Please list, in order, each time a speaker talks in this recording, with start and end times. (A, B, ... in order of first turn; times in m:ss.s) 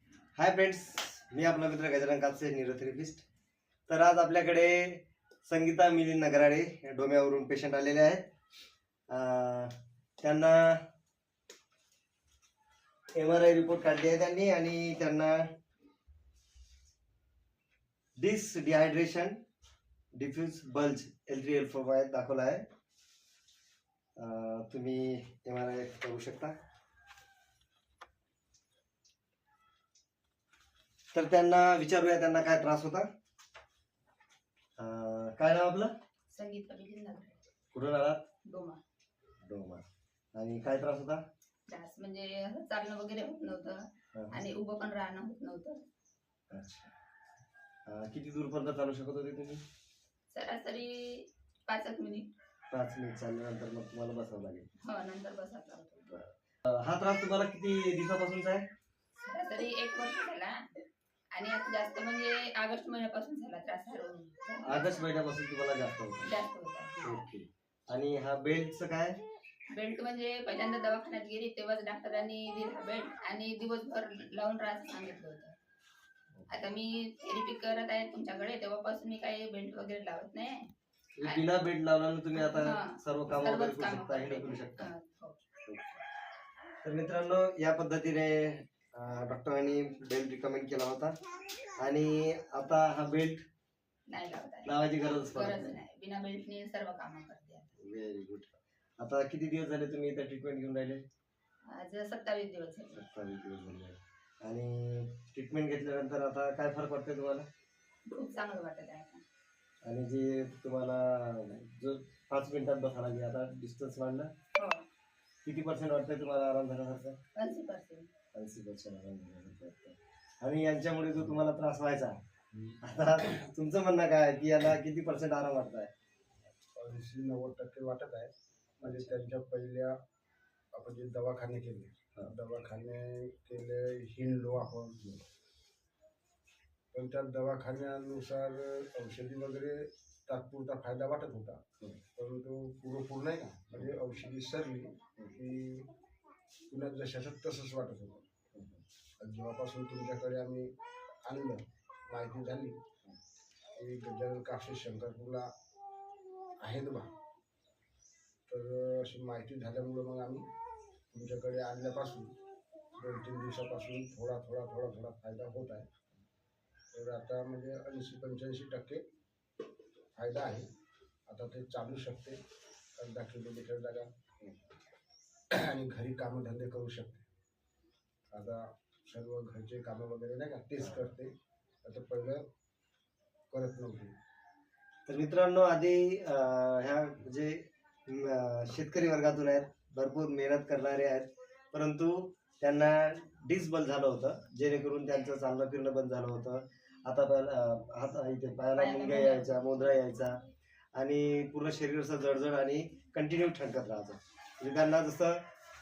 0:00.4-0:03.2 A
0:03.9-0:08.2 A
0:09.1-0:10.8 A
0:13.1-0:15.4 A
0:18.2-0:19.4 A
0:20.1-0:22.6 A
0:24.2-0:26.5 A
0:31.1-0:33.1 A
0:34.8-0:35.9 A
0:36.3-0:37.4 B
0:37.7-0:38.2 A
0:38.5-0:38.8 B
0:39.4-0:39.8 A
0:40.3-0:41.2 A
0:41.7-0:45.8 B
0:44.1-0:44.4 A
0:46.5-0:46.9 A
0:47.9-0:49.6 A
0:50.3-0:52.3 B
0:52.7-0:54.7 A
0:54.8-0:56.1 B
0:56.1-0:58.7 A
0:59.2-1:00.6 B
1:01.3-1:05.1 B
1:04.6-1:06.3 A
1:06.2-1:07.1 B
1:07.0-1:09.2 A
1:09.7-1:15.5 B
1:16.3-1:16.7 A
1:16.5-1:20.7 B
1:21.2-1:24.9 A
1:22.3-1:25.4 B
1:25.6-1:26.0 A
1:26.8-1:31.1 A
1:31.8-1:33.4 A
1:34.1-1:37.7 B
1:34.6-1:35.8 A
1:37.8-1:41.0 A
1:41.7-1:43.0 B
1:42.9-1:47.5 A
1:48.1-1:49.2 B
1:49.8-1:54.3 A
1:54.6-1:54.8 B
1:55.4-1:57.2 A
1:57.4-1:58.1 B
1:58.3-2:02.2 A
2:02.5-2:02.8 C
2:02.8-2:05.9 A
2:06.8-2:09.9 C
2:08.8-2:09.1 A
2:10.7-2:15.1 C
2:16.9-2:21.6 C
2:22.1-2:25.9 C
2:26.7-2:28.2 C
2:28.5-2:28.8 A
2:29.2-2:30.7 C
2:31.2-2:32.8 C
2:33.8-2:35.5 C
2:36.6-2:37.1 C
2:38.5-2:40.4 C
2:41.1-2:42.3 C
2:43.0-2:45.9 C
2:46.9-2:49.0 C
2:50.1-2:50.7 C
2:51.3-2:52.4 C
2:53.0-2:54.1 C
2:55.5-2:57.2 C
2:58.3-3:01.3 C
3:01.8-3:02.4 C
3:03.5-3:04.1 C
3:05.0-3:20.4 A
3:18.8-3:20.0 B
3:20.9-3:25.4 A